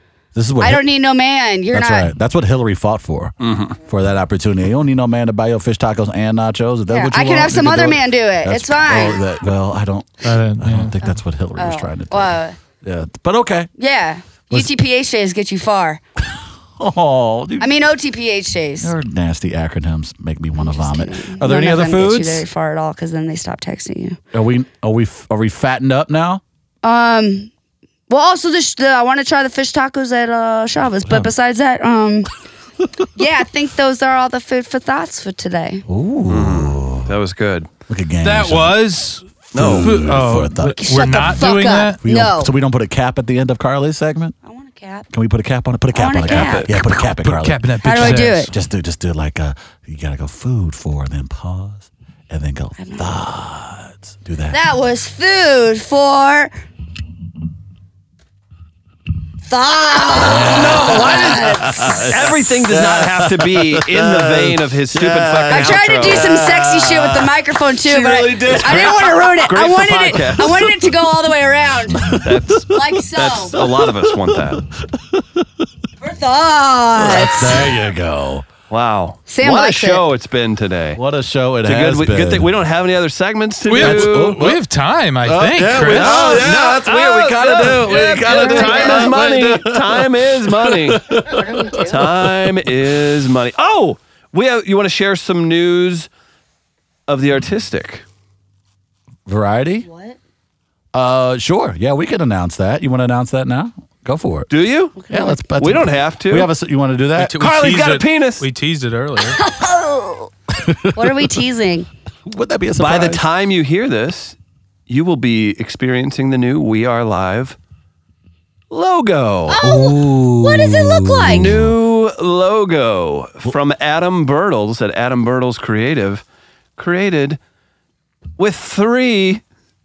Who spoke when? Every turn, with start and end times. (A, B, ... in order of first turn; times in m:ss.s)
0:00.4-0:00.8 A
0:00.6-0:02.1 B
0:01.7-0:13.7 A
0:03.4-0:03.8 C
0:06.9-0:09.2 B
0:10.2-0:11.0 D
0:11.6-0:12.6 B
0:13.8-0:16.0 B
0:16.2-0:17.7 A
0:17.6-0:18.9 B
0:18.8-0:22.4 A
0:20.6-0:24.2 B
0:24.3-0:26.4 A
0:26.8-0:27.5 B
0:28.1-0:32.3 B
0:33.2-0:35.8 B
0:35.9-0:37.1 A
0:36.3-0:37.7 C
0:37.9-0:38.8 A
0:38.2-0:42.0 D
0:39.5-0:41.5 A
0:39.5-0:40.1 C
0:40.6-0:42.5 B
0:42.0-0:44.4 A
0:44.4-0:45.1 B
0:45.1-0:54.6 A
0:45.9-0:46.7 B
0:46.2-0:46.7 C
0:46.9-0:48.5 D
0:47.8-0:48.5 B
0:52.8-0:53.1 B
0:54.5-0:56.5 B
0:59.5-1:02.1 B
1:00.1-1:06.7 A
1:02.0-1:07.3 C
1:05.5-1:13.6 B
1:07.8-1:09.3 A
1:08.5-1:10.9 C
1:12.0-1:12.6 A
1:12.1-1:14.6 C
1:13.5-1:15.4 A
1:16.0-1:17.7 B
1:17.0-1:18.5 A
1:18.7-1:21.0 C
1:19.3-1:20.0 B
1:21.0-1:22.5 A
1:21.6-1:24.4 C
1:23.7-1:26.4 D
1:23.8-1:24.6 A
1:25.2-1:32.5 A
1:25.7-1:31.2 C
1:28.2-1:29.2 B
1:31.3-1:32.0 B
1:31.8-1:36.1 C
1:37.1-1:38.0 C
1:39.3-1:39.9 A
1:39.9-1:40.2 B
1:40.9-1:44.5 A
1:44.5-1:45.0 C
1:45.0-1:45.4 B
1:45.1-1:47.4 A
1:45.6-1:46.5 C
1:47.2-1:49.4 D
1:47.4-1:48.4 C
1:49.2-1:50.3 B
1:50.6-1:51.3 A
1:50.9-1:51.9 B
1:52.3-1:53.2 A
1:52.8-1:54.4 C
1:54.9-1:57.6 C
1:58.7-1:59.6 C
1:59.5-2:01.5 B
1:59.6-2:01.8 A
2:01.3-2:06.2 C
2:06.8-2:07.4 C
2:08.4-2:09.4 C